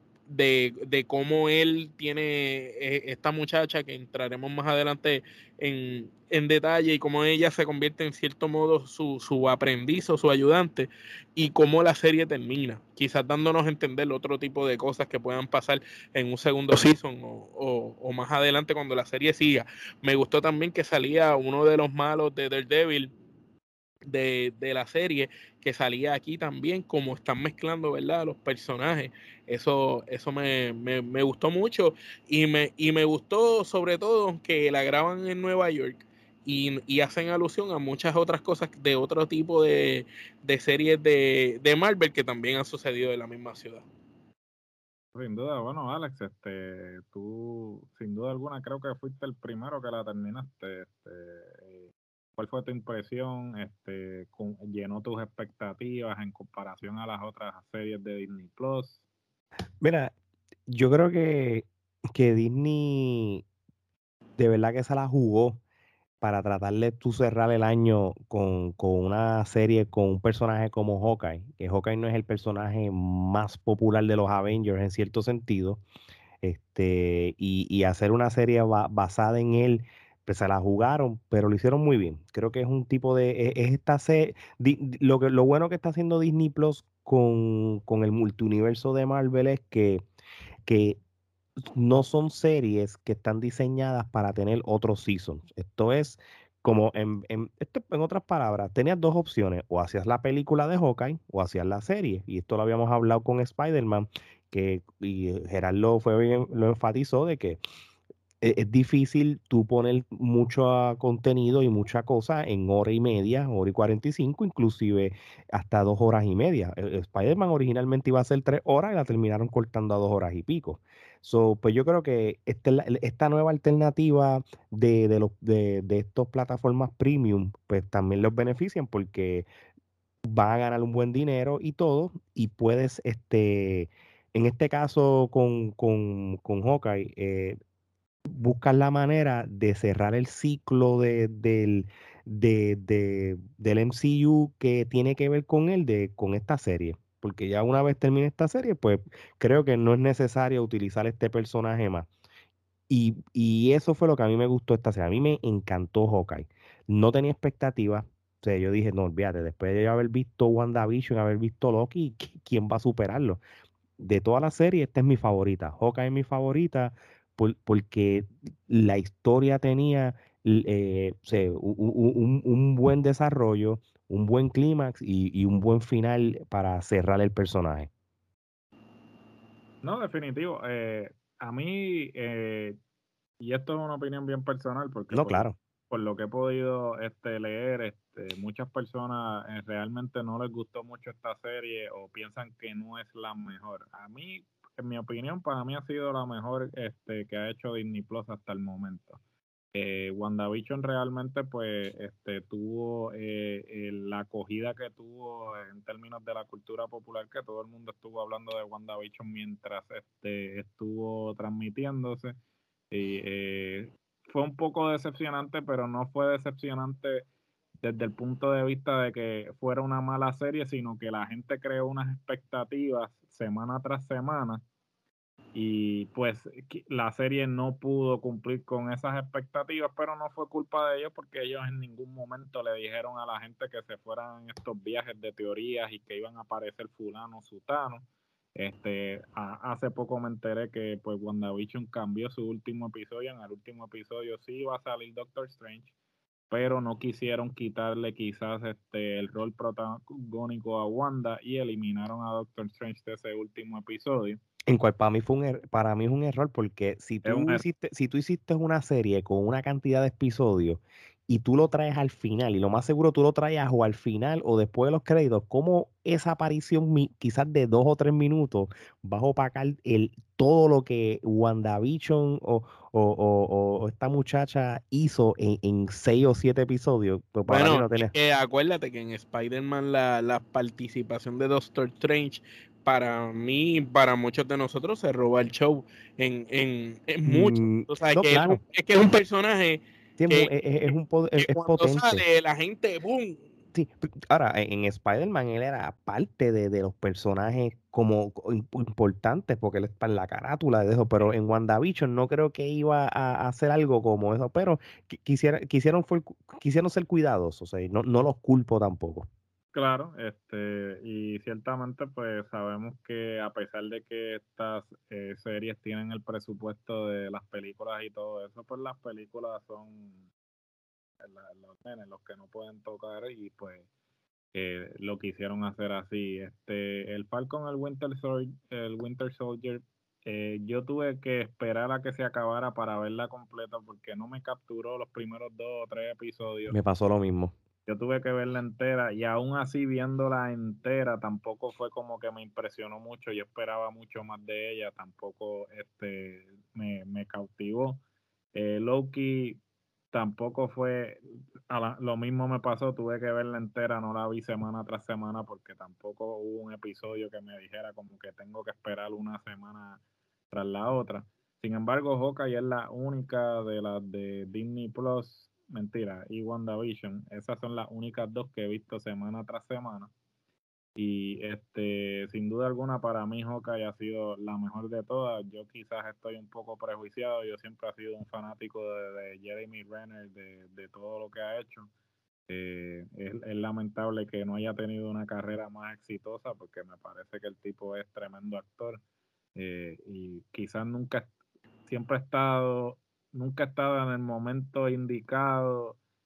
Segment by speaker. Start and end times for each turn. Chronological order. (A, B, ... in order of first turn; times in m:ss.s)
0:00.3-0:23.1 A
0:24.1-0:43.8 A
0:45.1-0:59.0 B
0:59.8-1:00.1 C
1:00.7-1:03.4 C
1:04.4-1:05.6 C
1:06.2-1:15.8 C
1:16.4-1:30.0 C
1:30.6-1:31.0 C
1:31.6-1:47.6 C
1:48.4-2:09.4 C
2:10.2-2:17.6 C
2:18.3-2:32.1 C
2:32.9-2:43.4 C
2:44.0-2:57.9 C
2:59.8-3:02.8 B
3:03.4-3:19.2 B
3:05.1-3:05.6 C
3:19.7-3:32.3 B
3:32.9-3:37.2 B
3:37.8-3:44.6 B
3:45.5-4:05.9 B
4:06.5-4:14.4 B
4:14.7-4:38.1 C
4:17.2-4:17.6 B
4:37.5-4:50.5 A
4:47.2-4:48.6 C
4:50.2-4:52.2 C
4:51.4-4:53.4 A
4:53.7-5:09.3 C
5:09.7-5:20.2 B
5:21.2-5:23.9 B
5:24.5-5:36.8 B
5:36.7-5:37.5 C
5:37.9-5:48.0 B
5:48.5-5:49.6 B
5:50.1-6:00.0 B
6:00.5-6:10.1 B
6:11.0-6:21.9 B
6:22.5-6:29.0 B
6:29.6-6:31.3 B
6:31.8-6:36.0 B